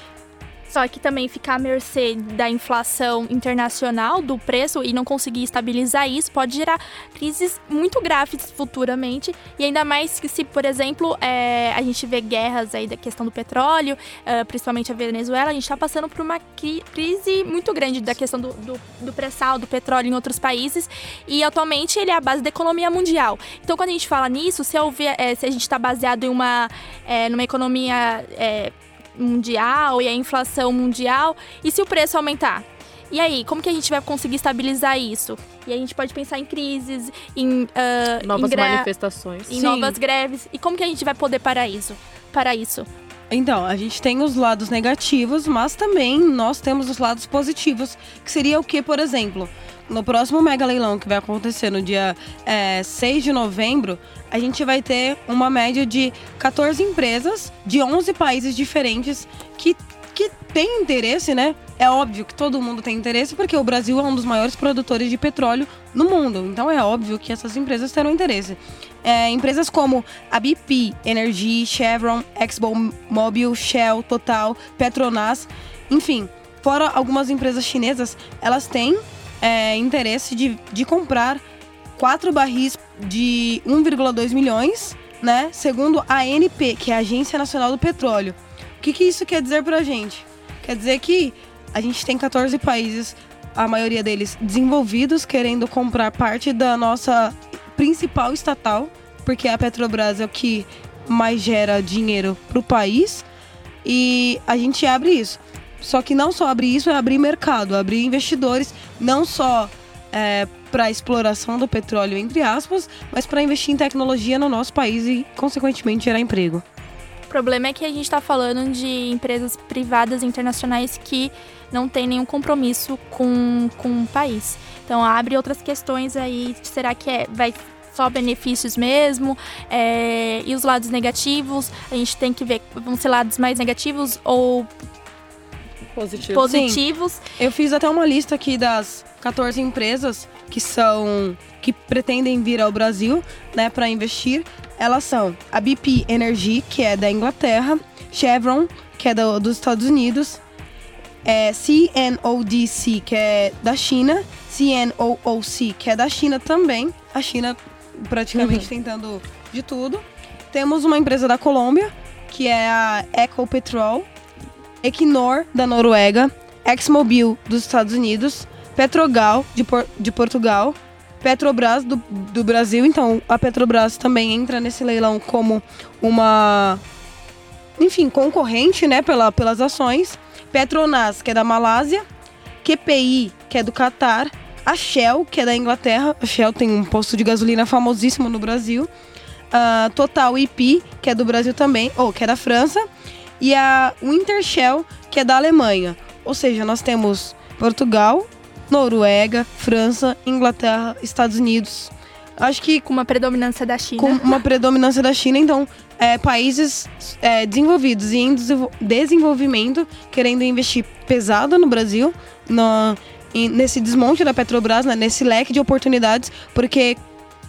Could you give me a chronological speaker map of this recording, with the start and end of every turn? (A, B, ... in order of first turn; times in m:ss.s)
0:00.7-0:38.9 A
0:38.2-0:39.5 B
0:39.5-0:42.9 A
0:39.5-0:40.0 C
0:43.3-1:21.4 C
1:22.0-1:43.2 C
1:43.8-1:56.6 C
1:57.3-2:14.7 A
2:16.0-2:16.5 B
2:16.3-2:17.2 A
2:16.4-2:16.8 C
2:17.4-2:30.4 C
2:31.2-2:44.1 C
2:38.4-2:38.7 B
2:44.8-2:56.8 C
2:57.8-3:02.0 C
3:02.6-3:08.9 C
3:09.5-3:12.8 C
3:13.4-3:22.8 C
3:22.8-3:24.3 A
3:24.0-3:37.0 C